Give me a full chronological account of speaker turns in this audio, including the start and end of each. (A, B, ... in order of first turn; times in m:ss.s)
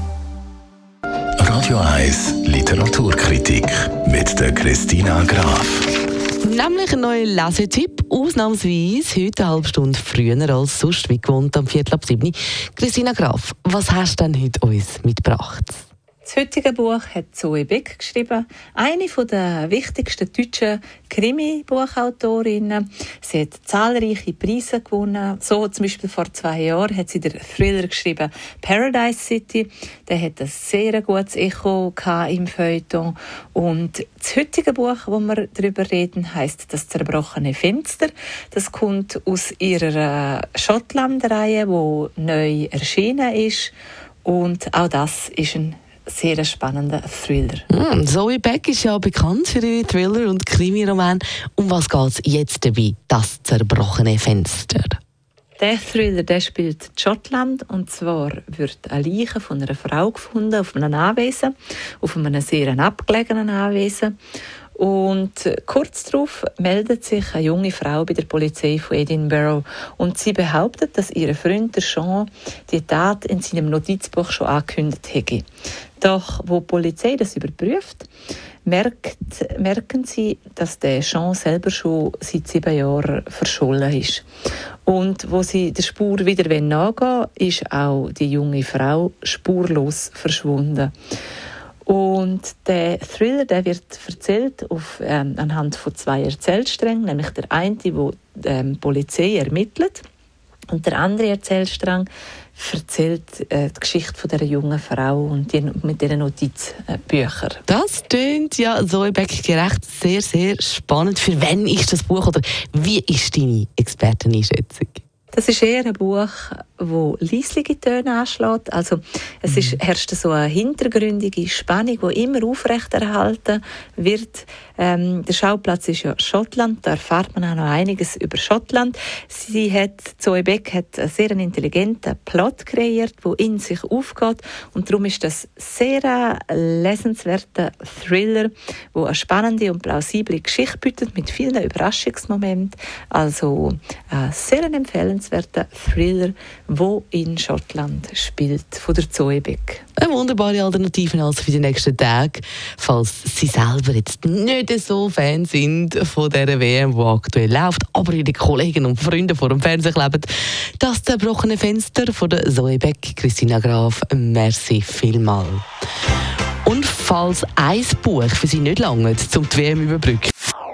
0:01.4-0:05.9 A
0:06.4-0:15.8 B
0:16.2-0:43.7 C
0:44.2-0:47.7 C
0:47.7-0:55.0 B
0:55.6-1:04.2 C
1:04.8-1:15.4 C
1:16.0-1:18.1 C
1:18.6-1:24.2 C
1:24.9-1:30.9 C
1:31.9-1:40.0 C
1:40.7-1:47.6 C
1:47.7-1:55.0 B
1:55.3-2:29.8 C
1:59.5-1:59.8 B
2:30.0-2:45.6 B
2:46.6-2:50.3 B